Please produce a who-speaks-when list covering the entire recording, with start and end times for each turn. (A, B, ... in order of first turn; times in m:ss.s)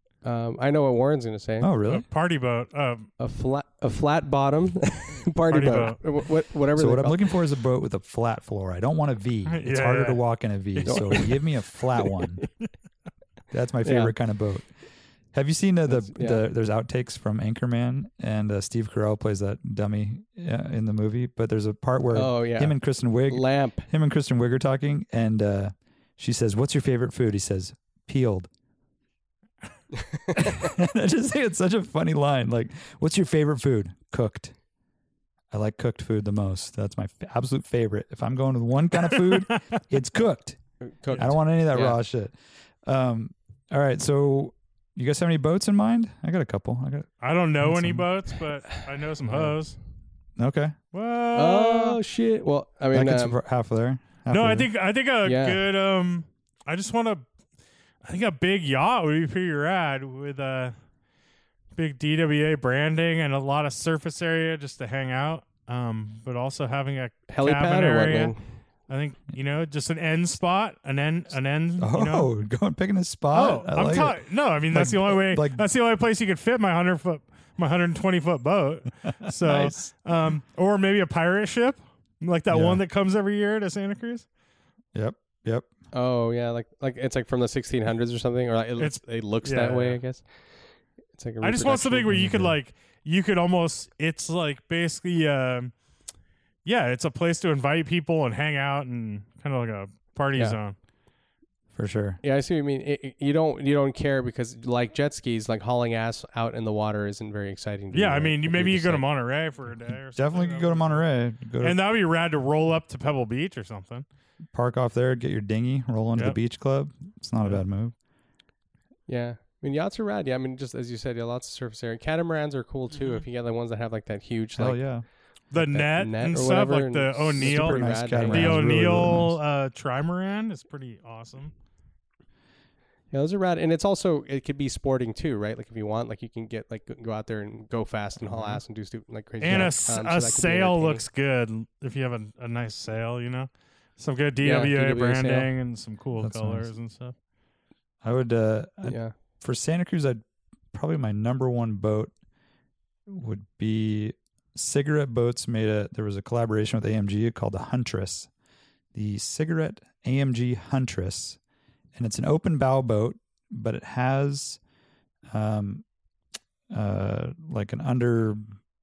0:00.2-0:01.7 A
0:01.6-0:02.1 B
0:01.9-0:03.1 C
0:03.2-0:07.3 A
0:05.5-0:06.0 C
0:06.8-0:12.4 B
0:09.5-0:10.2 C
0:10.8-0:12.3 A
0:13.5-0:14.7 B
0:13.8-0:14.1 A
0:15.3-0:28.5 B
0:15.9-0:16.4 A
0:22.1-0:22.8 A
0:23.3-0:23.9 A
0:30.3-0:34.6 B
0:35.5-0:40.6 B
0:40.8-0:42.0 A
0:41.2-0:48.1 B
0:47.2-0:49.8 C
0:49.3-0:49.6 A
0:50.4-0:50.8 B
0:50.9-0:52.0 C
0:51.4-0:53.4 A
0:52.9-0:54.7 B
0:54.3-0:57.2 C
0:55.2-0:55.6 A
0:58.0-1:00.8 C
1:01.8-1:08.4 C
1:07.3-1:08.4 A
1:08.9-1:12.3 C
1:11.8-1:15.6 B
1:13.3-1:24.3 C
1:19.2-1:19.9 B
1:22.5-1:22.8 B
1:24.9-1:25.7 B
1:25.9-1:30.4 A
1:28.8-1:30.0 C
1:31.2-1:32.2 A
1:31.4-1:35.7 C
1:32.1-1:32.6 B
1:36.6-1:40.8 C
1:41.7-1:42.2 B
1:42.2-1:49.1 A
1:47.9-1:54.0 C
1:50.2-1:51.8 B
1:54.5-1:57.9 B
1:59.1-2:05.0 A
2:04.6-2:05.0 B
2:05.5-2:11.5 C
2:05.6-2:08.7 A
2:07.4-2:09.4 B
2:13.1-2:21.0 A
2:18.3-2:18.6 C
2:19.4-2:27.2 C
2:24.4-2:25.5 A
2:26.2-2:26.7 B
2:28.0-2:32.1 B
2:28.8-2:29.1 A
2:33.1-2:38.3 B
2:38.9-2:41.4 B
2:42.0-2:44.6 B
2:45.3-2:45.8 B
2:46.7-2:48.6 B